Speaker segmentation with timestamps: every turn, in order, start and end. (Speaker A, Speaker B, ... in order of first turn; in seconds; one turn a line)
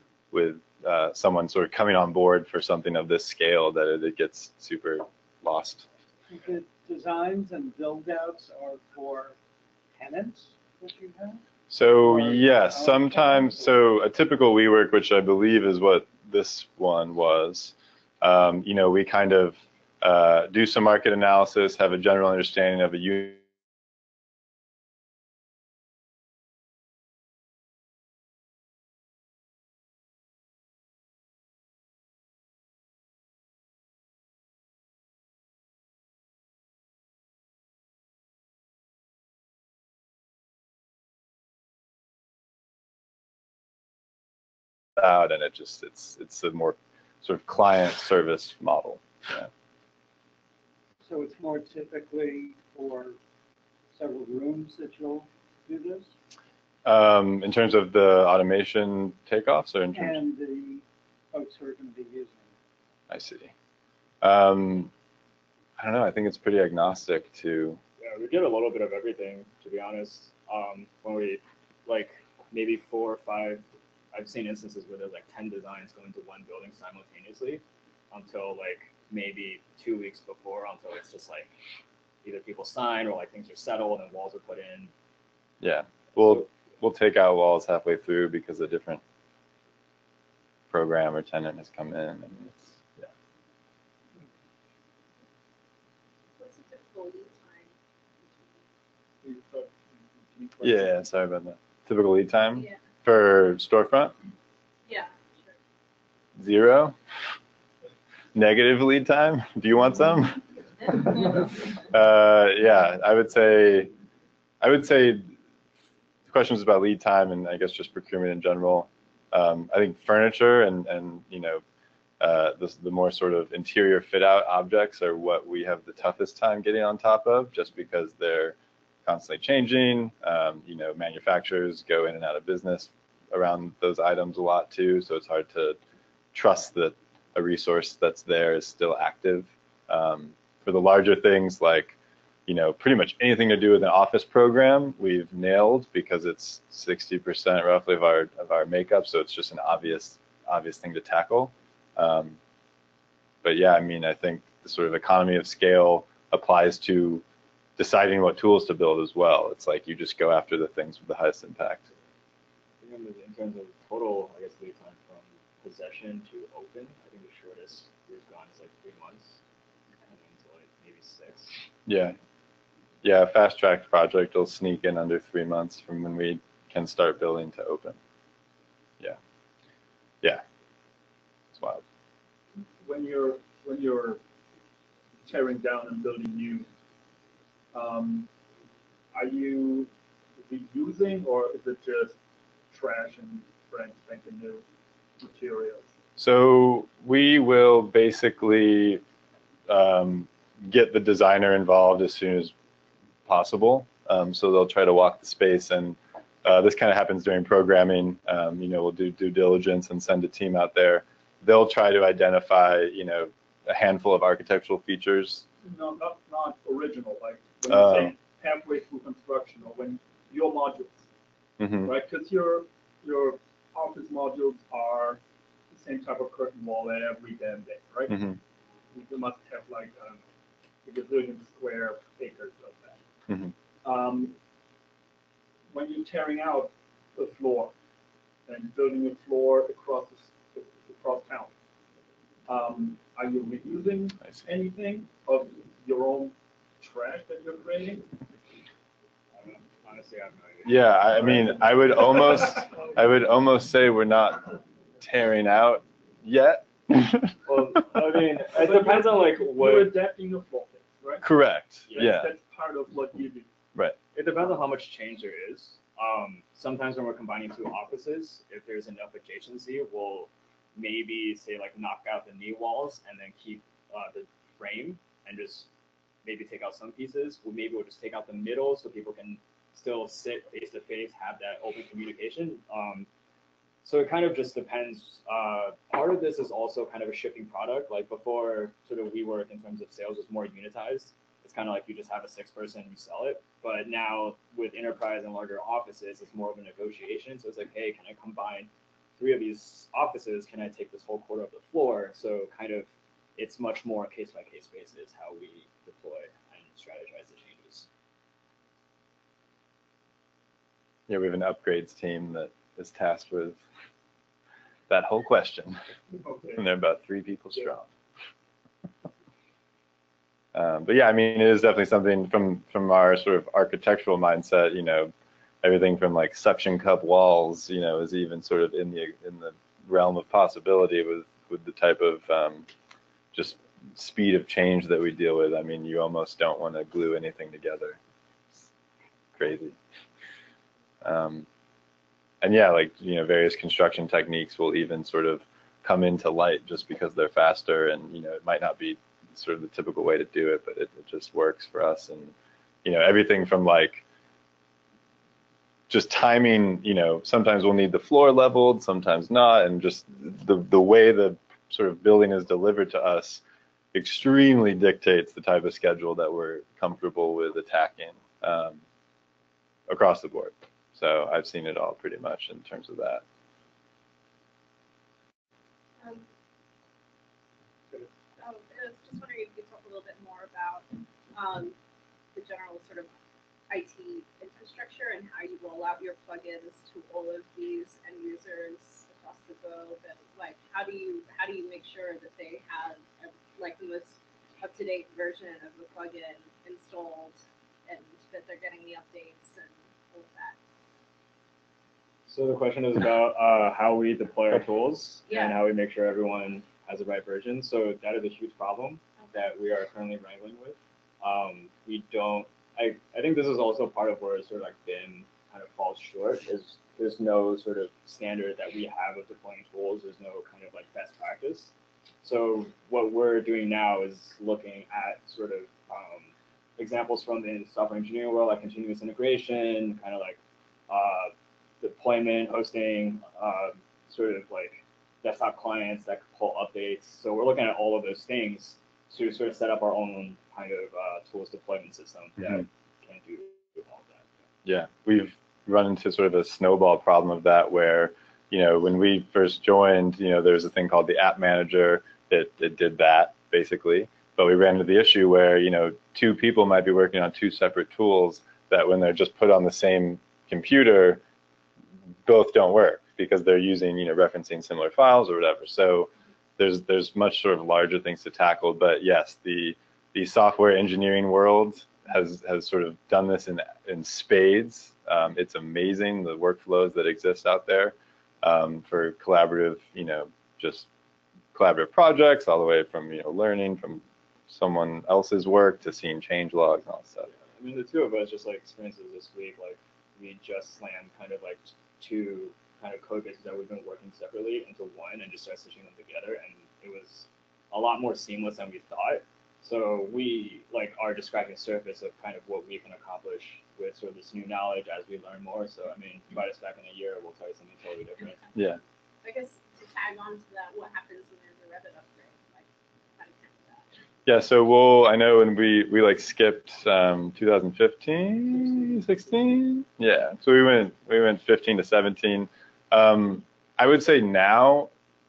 Speaker A: 0.3-5.9
Speaker B: 6.3-9.4
Speaker B: 9.9-11.4
Speaker A: 11.7-23.4
Speaker B: 12.0-13.7
Speaker A: 45.0-49.5
Speaker B: 51.0-53.2
Speaker B: 53.9-56.1
Speaker A: 56.9-60.2
Speaker B: 59.9-62.5
Speaker A: 63.1-63.5
Speaker A: 64.2-64.9
Speaker A: 65.8-67.8
Speaker C: 68.0-81.5
Speaker C: 82.2-84.9
Speaker A: 85.6-89.0
Speaker A: 90.7-93.1
Speaker D: 96.4-98.6
Speaker E: 99.2-100.9
Speaker A: 100.6-104.1
Speaker D: 102.5-102.8
Speaker D: 104.9-105.6
Speaker A: 106.4-107.0
Speaker A: 108.3-113.9
Speaker A: 114.6-115.3
Speaker A: 116.3-121.6
Speaker A: 122.2-135.8
Speaker A: 136.3-141.9
Speaker A: 142.5-152.4
Speaker A: 153.4-157.2
Speaker A: 157.8-161.9
Speaker C: 162.8-169.4
Speaker C: 170.1-171.6
Speaker A: 171.9-172.2
Speaker A: 173.0-178.0
Speaker A: 181.5-181.8
Speaker E: 182.8-184.2
Speaker E: 185.3-186.7
Speaker E: 187.7-188.3
Speaker E: 189.1-192.2
Speaker E: 192.7-194.6
Speaker E: 195.2-195.9
Speaker A: 196.2-199.0
Speaker A: 199.7-202.5
Speaker A: 203.3-215.4
Speaker E: 215.6-221.0
Speaker A: 217.7-218.1
Speaker A: 221.6-221.9
Speaker E: 221.8-225.2
Speaker E: 225.7-228.2
Speaker A: 228.1-228.4
Speaker E: 228.9-230.2
Speaker E: 230.8-233.0
Speaker A: 233.3-233.5
Speaker E: 233.8-234.4
Speaker E: 235.7-237.7
Speaker E: 238.5-241.5
Speaker E: 242.5-248.1
Speaker C: 249.3-251.4
Speaker A: 250.7-254.5
Speaker A: 255.0-257.4
Speaker C: 257.5-260.0
Speaker E: 258.5-261.3
Speaker A: 261.2-262.3
Speaker C: 261.9-262.1
Speaker E: 261.9-263.5
Speaker C: 264.1-275.7
Speaker C: 276.2-283.1
Speaker C: 283.8-307.9
Speaker A: 311.1-313.6
Speaker A: 314.9-315.8
Speaker E: 316.2-316.6
Speaker A: 316.6-317.9
Speaker A: 320.5-325.1
Speaker A: 325.6-332.7
Speaker A: 333.3-338.0
Speaker A: 339.4-339.8
Speaker A: 341.0-341.5
Speaker A: 342.4-352.3
Speaker A: 352.8-354.0
Speaker A: 355.9-363.4
Speaker A: 363.9-368.8
Speaker A: 369.9-373.2
Speaker D: 376.0-376.3
Speaker D: 378.4-381.8
Speaker D: 382.3-383.1
Speaker D: 383.7-400.6
Speaker C: 402.3-421.7
Speaker D: 405.3-405.6
Speaker C: 422.2-444.4
Speaker A: 444.6-461.2
Speaker A: 462.3-480.9
Speaker A: 481.5-487.3
Speaker C: 487.3-508.5
Speaker A: 508.6-508.8
Speaker D: 509.2-513.9
Speaker A: 514.3-524.9